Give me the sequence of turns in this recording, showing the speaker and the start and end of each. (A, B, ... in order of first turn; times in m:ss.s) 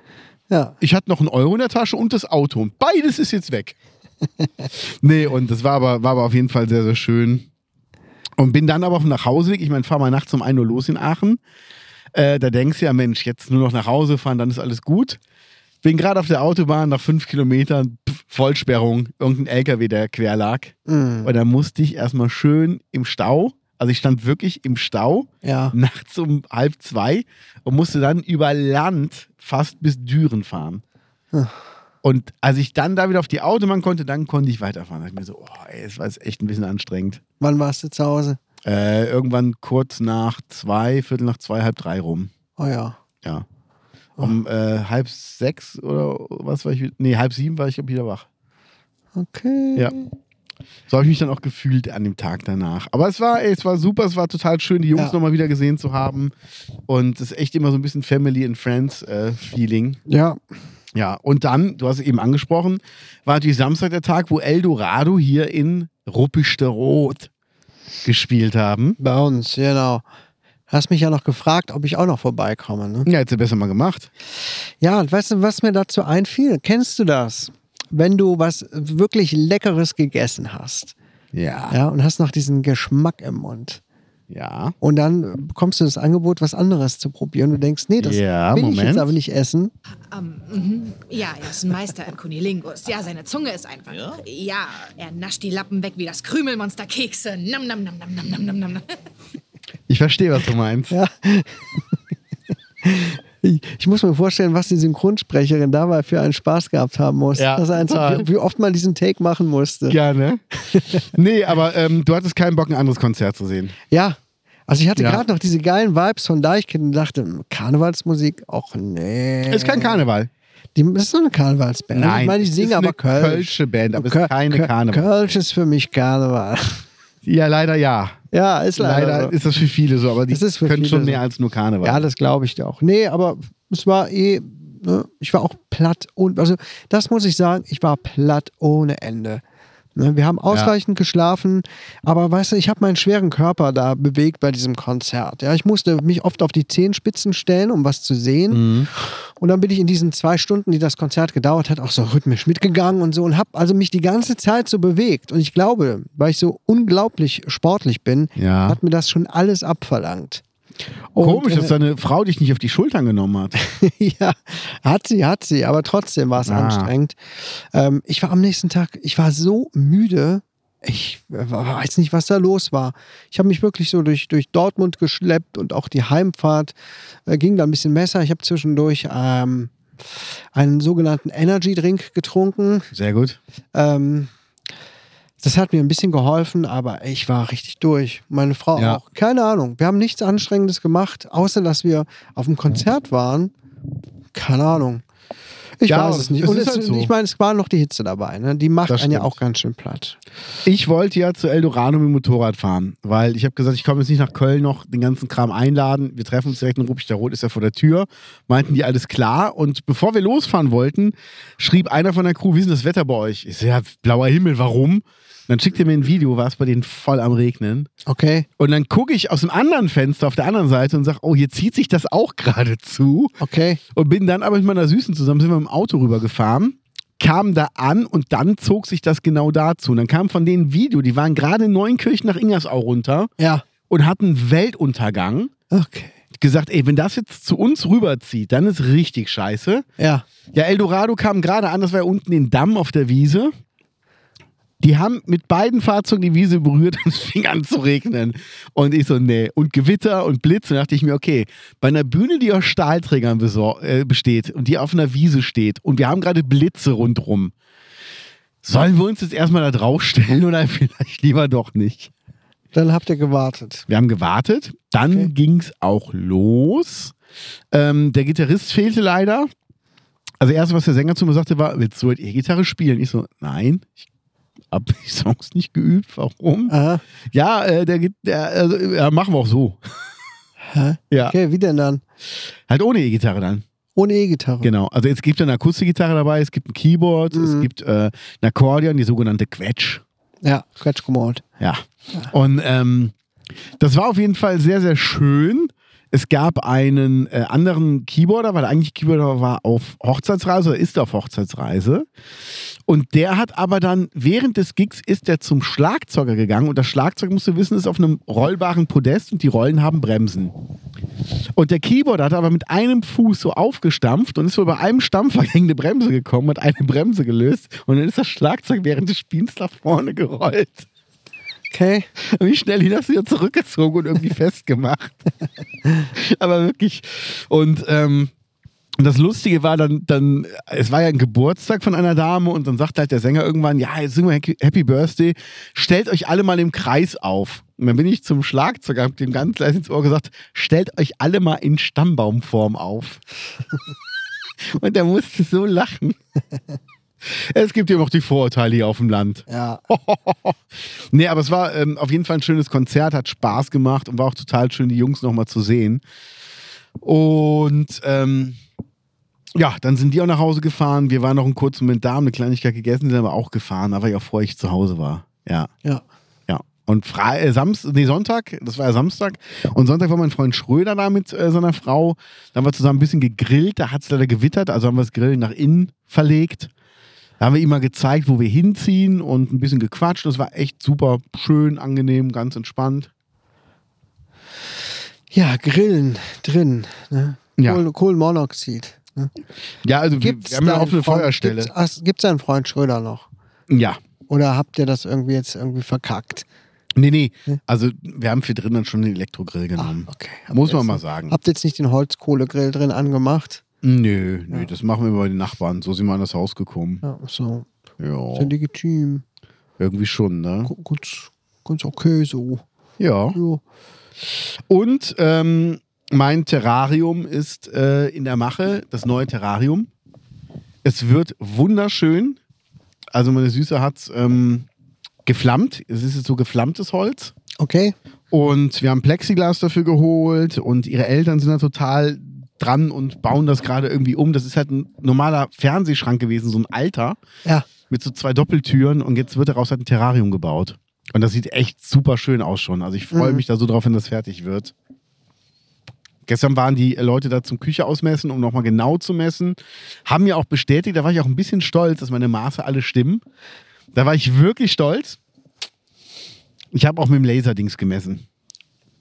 0:00.5-0:00.8 A
0:00.8-0:03.7 B
0:04.8-0:07.5 B
0:08.4-0:11.4 B
0:12.1-0:15.2 B
0:15.8-0:30.8 B
0:20.9-0:21.3 A
0:25.4-0:25.7 A
0:32.0-0:37.2 B
0:37.4-0:38.4 A
0:38.6-0:42.3 B
0:42.6-0:43.0 A
0:44.2-0:48.2 B
0:49.1-0:50.1 A
0:50.9-0:56.3 B
0:56.9-1:00.0 B
1:00.1-1:00.4 A
1:00.9-1:07.3 B
1:08.0-1:09.0 B
1:09.0-1:10.0 A
1:10.7-1:13.1 A
1:13.0-1:14.1 B
1:14.8-1:20.9 A
1:21.3-1:21.7 B
1:21.7-1:23.8 A
1:24.3-1:24.7 B
1:24.8-1:29.7 A
1:28.0-1:29.1 B
1:30.1-1:38.9 C
1:39.9-1:40.9 B
1:40.9-1:41.6 A
1:42.8-1:50.0 A
1:47.3-1:48.3 B
1:49.9-1:50.4 B
1:50.7-1:51.0 A
1:51.0-1:53.7 B
1:53.9-1:54.2 A
1:54.7-2:00.0 A
1:55.0-1:55.2 B
1:59.5-2:00.3 B
2:00.7-2:06.8 A
2:01.9-2:05.1 B
2:07.2-2:08.2 B
2:08.3-2:09.3 A
2:08.8-2:12.1 B
2:10.3-2:11.2 A
2:11.8-2:19.4 A
2:20.0-2:40.4 A
2:28.5-2:28.9 B
2:38.4-2:38.8 B
2:41.1-2:41.7 A
2:41.2-2:43.6 B
2:43.6-2:56.7 A
2:46.4-2:46.9 B
2:57.3-2:59.7 A
3:00.5-3:02.9 A
3:02.9-3:03.4 B
3:03.7-3:04.3 A
3:05.4-3:13.5 A
3:08.7-3:09.0 B
3:14.3-3:15.0 A
3:15.8-3:20.2 A
3:15.9-3:17.1 B
3:18.9-3:19.3 B
3:20.6-3:37.9 B
3:38.0-3:38.4 A
3:38.6-3:43.3 B
3:43.4-3:43.8 A
3:43.9-3:53.3 B
3:53.4-3:53.6 A
3:53.9-3:55.5 B
3:55.7-3:56.2 A
3:56.3-3:59.8 B
4:00.0-4:00.2 A
4:00.5-4:03.5 B
4:04.8-4:17.5 B
4:18.6-4:22.1 B
4:22.7-4:23.8 A
4:23.9-4:27.1 B
4:27.7-4:29.5 B
4:30.4-4:34.0 B
4:34.7-4:36.7 B
4:36.7-4:37.0 A
4:37.3-4:39.8 B
4:40.7-4:42.0 A
4:42.7-4:43.6 B
4:44.0-4:44.7 A
4:44.6-4:50.0 B
4:47.3-4:47.7 A
4:50.4-4:51.4 A
4:51.6-4:53.1 B
4:53.8-5:02.1 B
5:02.9-5:10.5 B
5:11.5-5:20.8 B
5:21.7-5:22.1 A
5:22.2-5:25.2 B
5:26.1-5:28.3 B
5:29.0-5:43.2 B
5:44.7-5:46.2 B
5:47.2-5:50.6 B
5:49.5-5:49.8 A
5:51.1-5:56.0 B
5:57.0-5:58.6 B
5:59.5-6:05.7 B
6:06.5-6:16.7 B
6:17.4-6:23.1 B
6:25.3-6:29.3 A
6:29.8-6:31.7 B
6:30.2-6:33.3 A
6:33.7-6:34.0 B
6:34.3-6:36.4 A
6:37.0-6:41.4 B
6:39.8-6:43.6 A
6:43.8-6:47.0 B
6:47.0-6:47.6 A
6:48.0-6:48.5 B
6:48.3-6:49.2 A
6:49.8-6:50.7 B
6:50.6-6:52.6 A
6:53.0-6:53.4 B
6:53.3-6:53.6 A
6:54.4-6:59.9 B
7:00.8-7:02.4 B
7:03.1-7:04.7 B
7:05.2-7:07.3 B
7:07.6-7:07.9 A
7:08.3-7:17.2 B
7:17.9-7:24.7 B
7:23.1-7:23.4 A
7:26.2-7:33.2 B
7:33.9-7:35.2 B
7:36.7-7:38.2 B